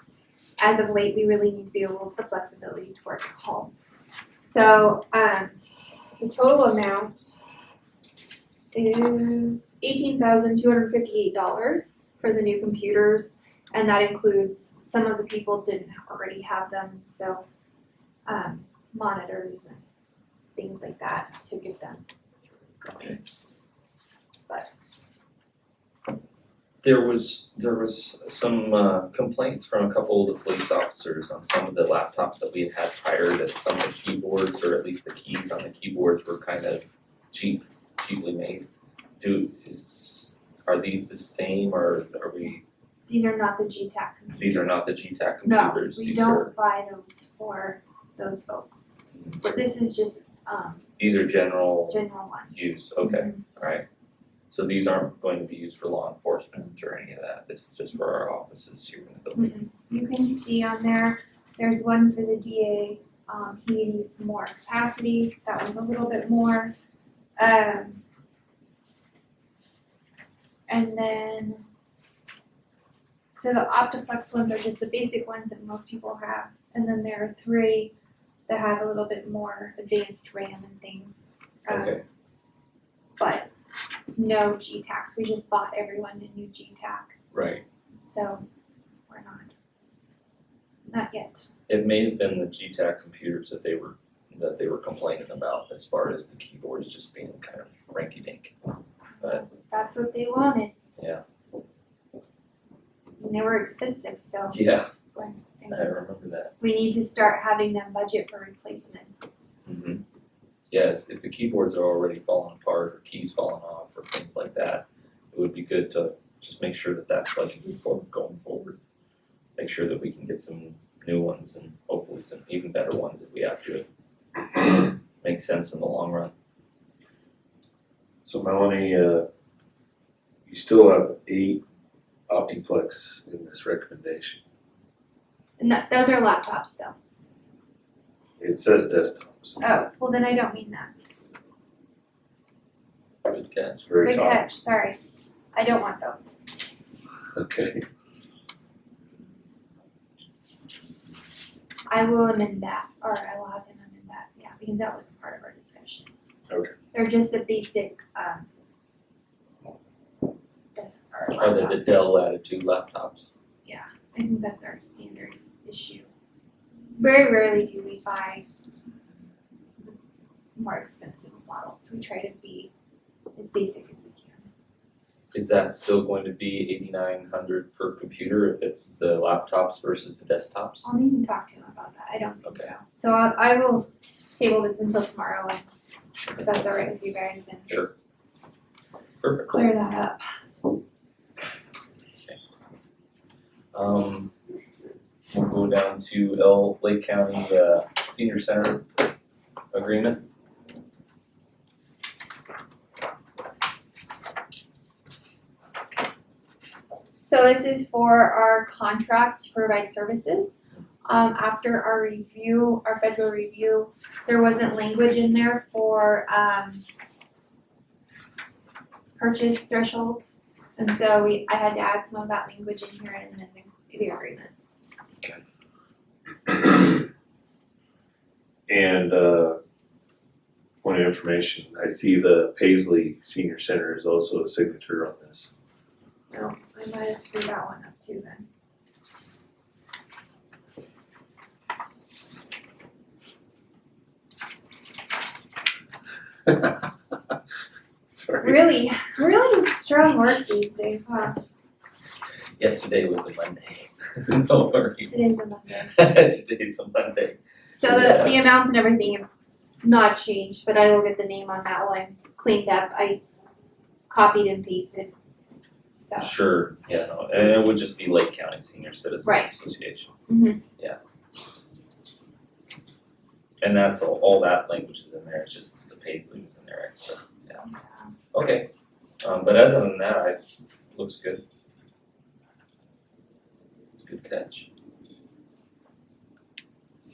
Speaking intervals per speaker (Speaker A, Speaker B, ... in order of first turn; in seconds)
Speaker A: 0.6-3.7, 4.4-5.6, 6.2-7.4, 8.7-17.4, 18.3-19.8, 20.6-22.0, 22.9-23.2, 43.1-44.8, 45.4-50.8, 51.9-53.4, 59.4-66.7, 67.4-68.0, 70.7-71.7, 73.3-77.9, 78.5-82.0, 83.2-83.5, 84.1-87.2, 88.0-88.4, 89.1-89.5, 90.9-91.5, 99.2-100.7, 103.2-104.6, 105.1-106.0, 106.6-109.3, 135.6-136.9, 139.6-140.9, 144.0-145.0, 145.5-146.3, 151.9-156.1, 156.9-158.5, 160.8-162.0, 163.7-166.1, 167.0-168.4, 170.6-172.7, 173.4-174.5, 180.8-185.7, 186.4-187.9, 189.5-190.2, 207.2-210.5, 211.1-216.8, 219.2-224.5, 236.3-238.5, 248.4-251.4, 255.1-255.9, 257.8-259.3, 259.8-263.2, 264.1-265.1, 265.9-266.3, 269.2-269.5, 270.3-270.6, 277.6-278.1
Speaker B: 22.8-23.2, 26.8-38.7, 39.2-42.6, 44.4-46.5, 49.1-49.4, 51.0-53.9, 54.5-59.5, 81.7-82.0, 87.3-87.6, 91.7-98.6, 101.0-101.2, 104.5-104.9, 105.7-106.5, 109.7-110.0, 110.7-118.8, 119.6-123.9, 125.2-126.3, 143.3-143.8, 161.3-163.3, 175.3-180.9, 182.4-182.7, 189.2-189.6, 193.7-194.3, 195.3-198.9, 199.7-200.2, 252.6-258.4, 266.2-270.1, 273.6-277.6, 278.3-278.7, 279.2-281.4, 284.0-284.7
Speaker C: 128.2-129.3, 130.5-131.6, 132.3-134.4, 138.4-139.6, 143.8-144.5, 147.4-147.8, 226.5-226.8, 228.7-229.6, 230.8-235.5, 246.5-246.8, 248.1-248.5